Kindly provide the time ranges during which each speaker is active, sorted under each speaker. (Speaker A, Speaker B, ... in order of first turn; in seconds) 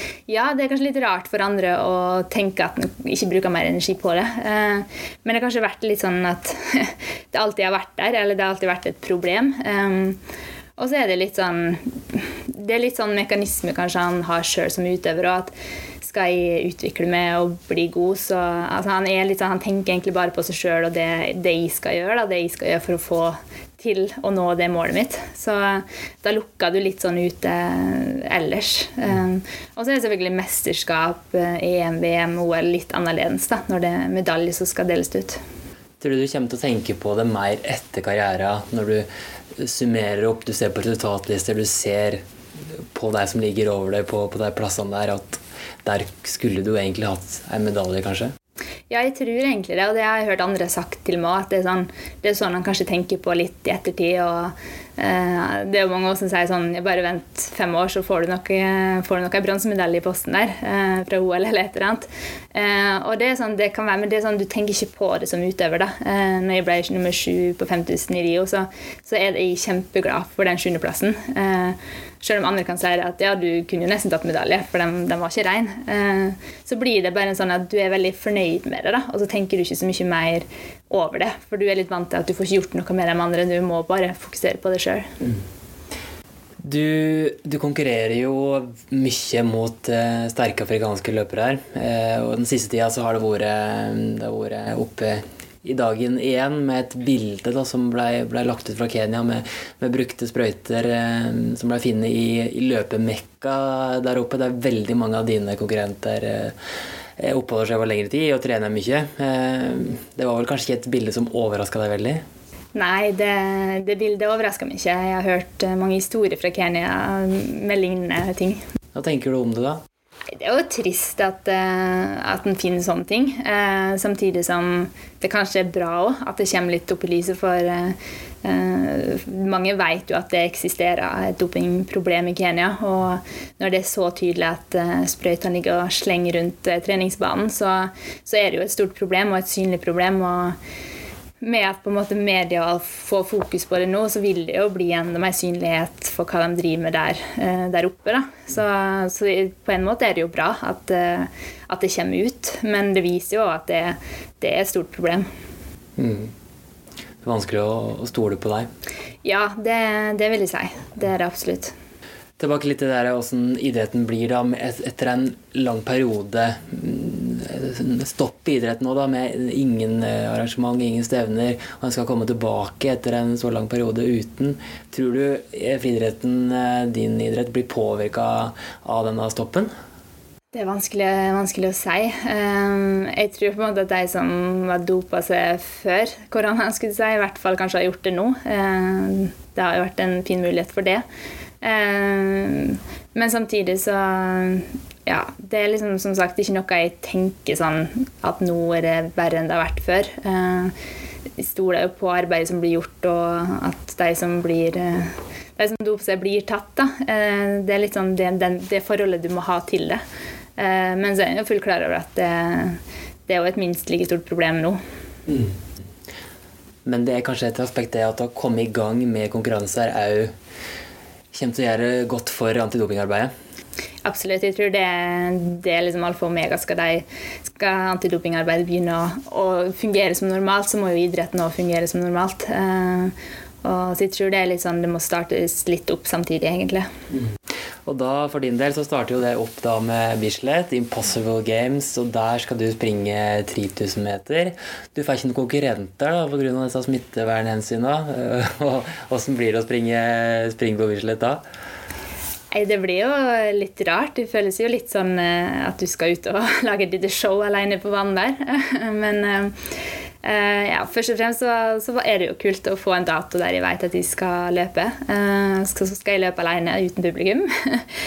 Speaker A: 0.3-10.2, 10.8-35.4, 48.9-85.1, 112.7-118.6, 120.3-140.6, 141.4-155.2, 159.2-161.7, 180.5-191.0, 191.6-200.7, 201.4-210.0, 210.6-214.8, 224.0-236.9, 252.5-259.6, 260.2-267.9
Speaker B: 36.0-42.2, 42.9-48.3, 86.6-106.5, 107.2-112.2, 118.9-119.8, 156.0-156.3, 157.2-158.7, 162.4-179.7, 215.3-215.5, 216.8-220.3, 221.3-223.3, 237.8-251.4